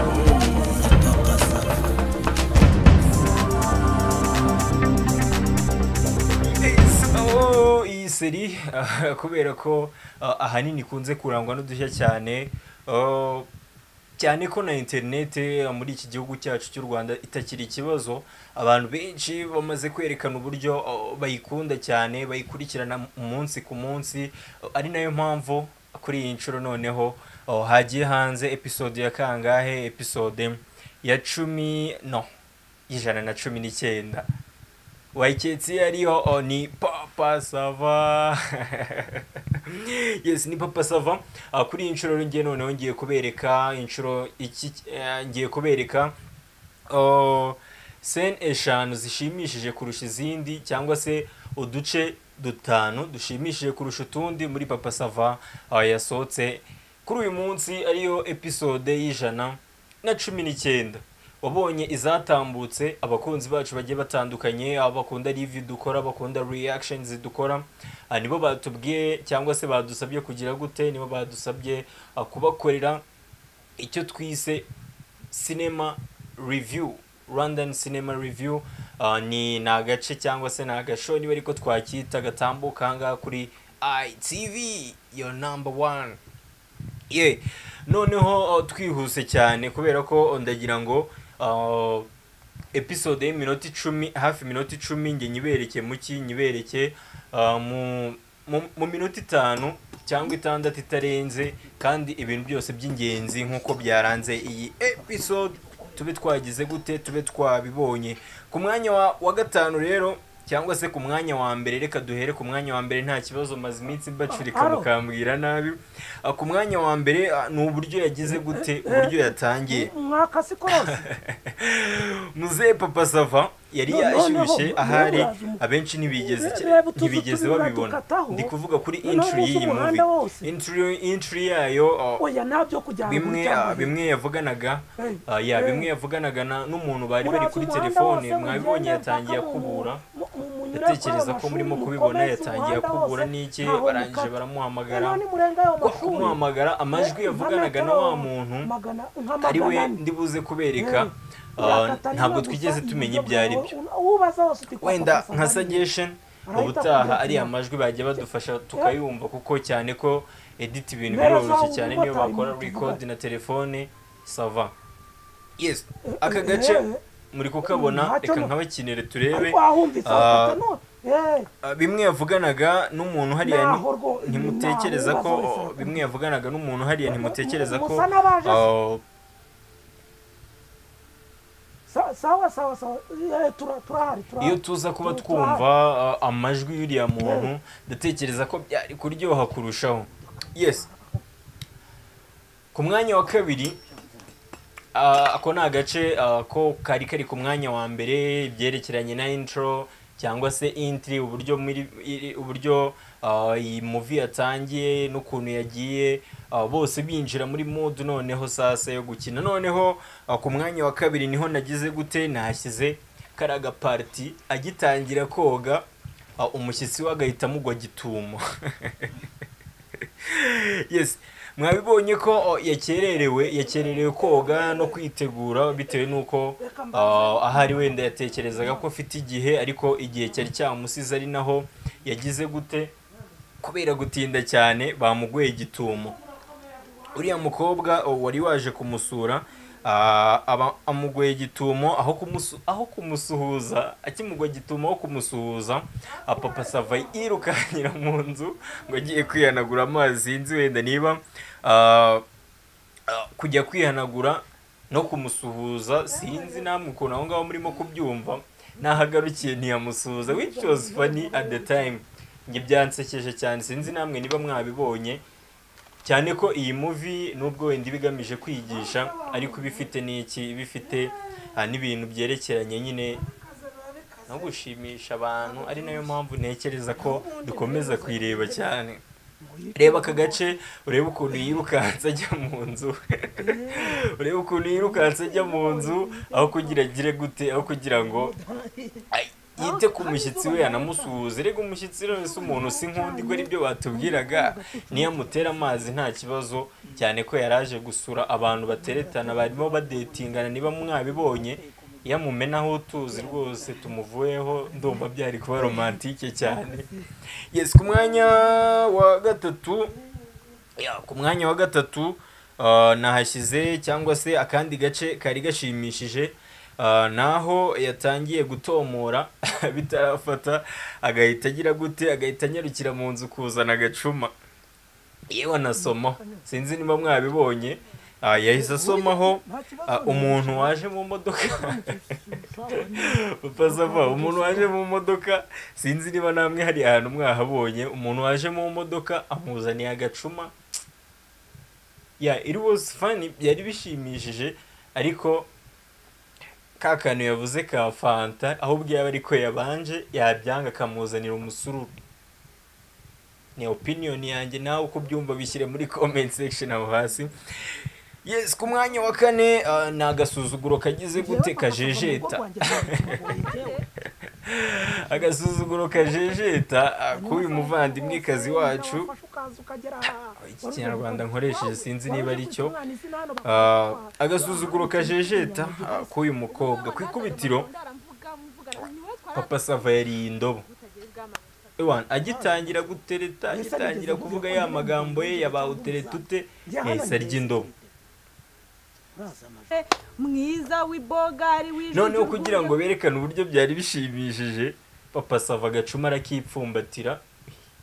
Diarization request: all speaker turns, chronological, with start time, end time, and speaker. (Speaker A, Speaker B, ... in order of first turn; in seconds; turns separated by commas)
Speaker A: 0.6-1.1, Speaker B: 6.5-13.5, Speaker B: 14.2-32.3, Speaker B: 32.9-34.3, Speaker B: 35.1-46.2, Speaker B: 46.9-73.0, Speaker B: 73.8-74.7, Speaker B: 75.3-86.2, Speaker B: 87.1-92.1, Speaker B: 92.7-119.9, Speaker A: 114.3-114.9, Speaker A: 118.3-121.1, Speaker B: 120.7-132.2, Speaker A: 123.9-128.5, Speaker A: 129.0-130.5, Speaker A: 132.2-134.0, Speaker B: 133.0-140.0, Speaker A: 135.0-135.9, Speaker A: 137.2-144.4, Speaker B: 140.7-145.2, Speaker A: 144.9-146.4, Speaker B: 145.8-148.7, Speaker A: 146.9-150.0, Speaker B: 149.4-153.7, Speaker A: 150.8-155.8, Speaker B: 154.8-164.7, Speaker A: 156.5-157.5, Speaker A: 161.1-163.0, Speaker B: 165.6-170.6, Speaker A: 166.1-167.0, Speaker A: 167.7-168.5, Speaker A: 169.3-171.5, Speaker B: 171.6-179.0, Speaker A: 173.4-176.0, Speaker A: 177.0-178.7, Speaker A: 181.9-185.7, Speaker B: 184.4-190.9, Speaker A: 187.2-187.5, Speaker A: 190.8-191.2, Speaker B: 192.7-193.8, Speaker B: 194.9-215.9, Speaker B: 216.4-219.3, Speaker B: 220.2-232.9, Speaker A: 223.4-225.0, Speaker A: 226.6-228.9, Speaker B: 233.6-236.2, Speaker A: 236.2-237.7, Speaker B: 237.1-252.2, Speaker A: 246.3-247.4, Speaker B: 253.1-265.2, Speaker A: 256.1-256.7, Speaker A: 260.2-262.0, Speaker B: 266.0-273.2, Speaker A: 268.9-269.9, Speaker A: 273.2-274.5, Speaker B: 274.3-279.0, Speaker A: 275.4-276.2, Speaker A: 276.9-278.7, Speaker A: 279.4-280.5, Speaker B: 279.8-288.3, Speaker A: 283.4-284.0, Speaker A: 284.7-286.9, Speaker A: 287.6-289.1, Speaker B: 289.1-306.9, Speaker A: 289.6-291.1, Speaker A: 292.1-296.0, Speaker A: 298.7-302.1, Speaker A: 303.1-304.0, Speaker A: 304.6-305.1, Speaker A: 305.6-307.1, Speaker B: 307.5-309.9, Speaker A: 307.9-308.3, Speaker B: 310.8-324.3, Speaker B: 325.3-331.8, Speaker A: 325.8-326.5, Speaker A: 328.4-330.7, Speaker A: 331.4-334.7, Speaker B: 333.1-340.5, Speaker B: 342.2-345.5, Speaker B: 346.8-351.9, Speaker B: 353.6-357.4, Speaker B: 358.2-363.2, Speaker A: 361.1-363.9, Speaker C: 363.4-363.8, Speaker B: 364.4-369.1, Speaker A: 367.1-376.2, Speaker B: 370.4-372.8, Speaker B: 373.4-377.7, Speaker C: 376.5-379.9, Speaker B: 379.3-380.7, Speaker C: 380.6-381.8, Speaker B: 381.8-387.7, Speaker A: 382.2-382.9, Speaker A: 383.5-387.9, Speaker A: 389.2-389.8, Speaker C: 389.7-392.8, Speaker B: 391.9-397.2